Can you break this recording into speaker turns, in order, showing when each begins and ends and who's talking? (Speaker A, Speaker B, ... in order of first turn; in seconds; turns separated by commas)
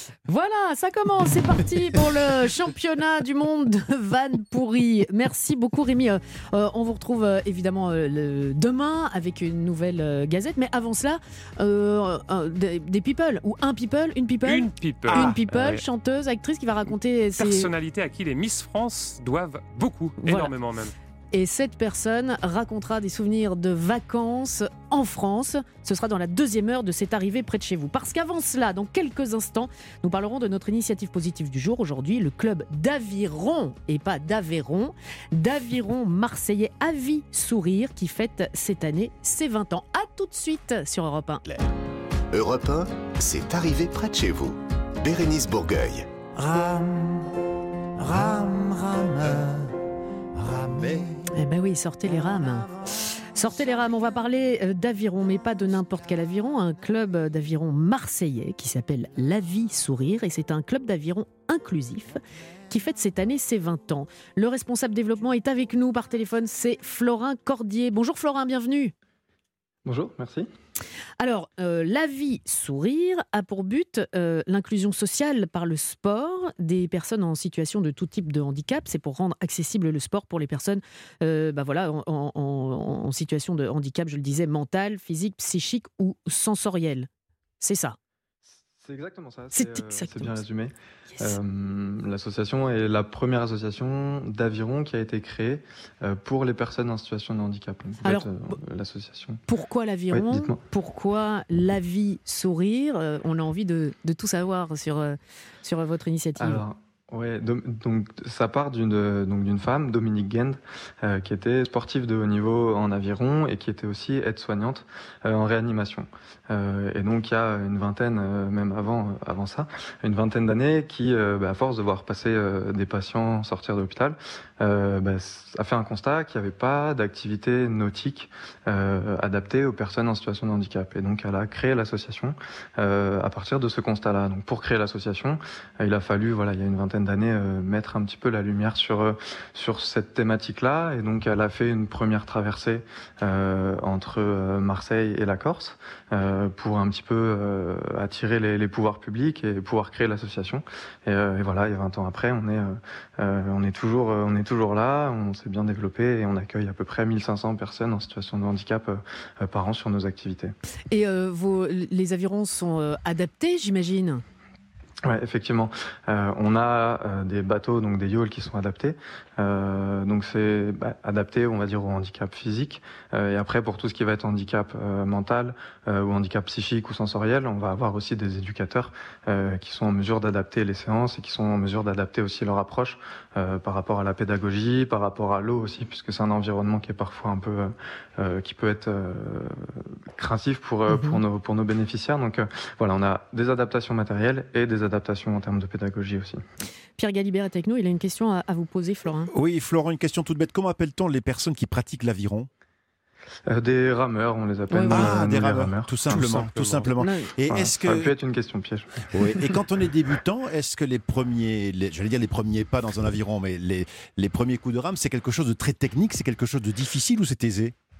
Speaker A: 0.3-17.7, Speaker B: 14.4-15.8, Speaker B: 17.4-20.9, Speaker A: 20.2-20.5, Speaker A: 21.3-41.4, Speaker C: 41.5-41.7, Speaker D: 42.3-46.1, Speaker C: 46.4-46.8, Speaker C: 48.0-49.5, Speaker C: 50.4-51.1, Speaker A: 51.3-52.7, Speaker A: 53.3-68.9, Speaker E: 69.8-70.5, Speaker A: 71.2-87.1, Speaker A: 87.6-88.0, Speaker E: 88.8-99.4, Speaker A: 89.5-90.4, Speaker A: 98.0-98.3, Speaker A: 99.5-106.6, Speaker E: 100.1-100.6, Speaker E: 106.4-160.5, Speaker A: 160.9-164.2, Speaker E: 165.0-196.4, Speaker A: 190.9-191.2, Speaker A: 197.0-199.3, Speaker C: 199.3-202.5, Speaker E: 203.5-206.8, Speaker A: 204.7-205.3, Speaker C: 204.9-208.1, Speaker B: 206.3-206.8, Speaker A: 207.0-207.3, Speaker E: 207.5-209.1, Speaker C: 209.1-217.7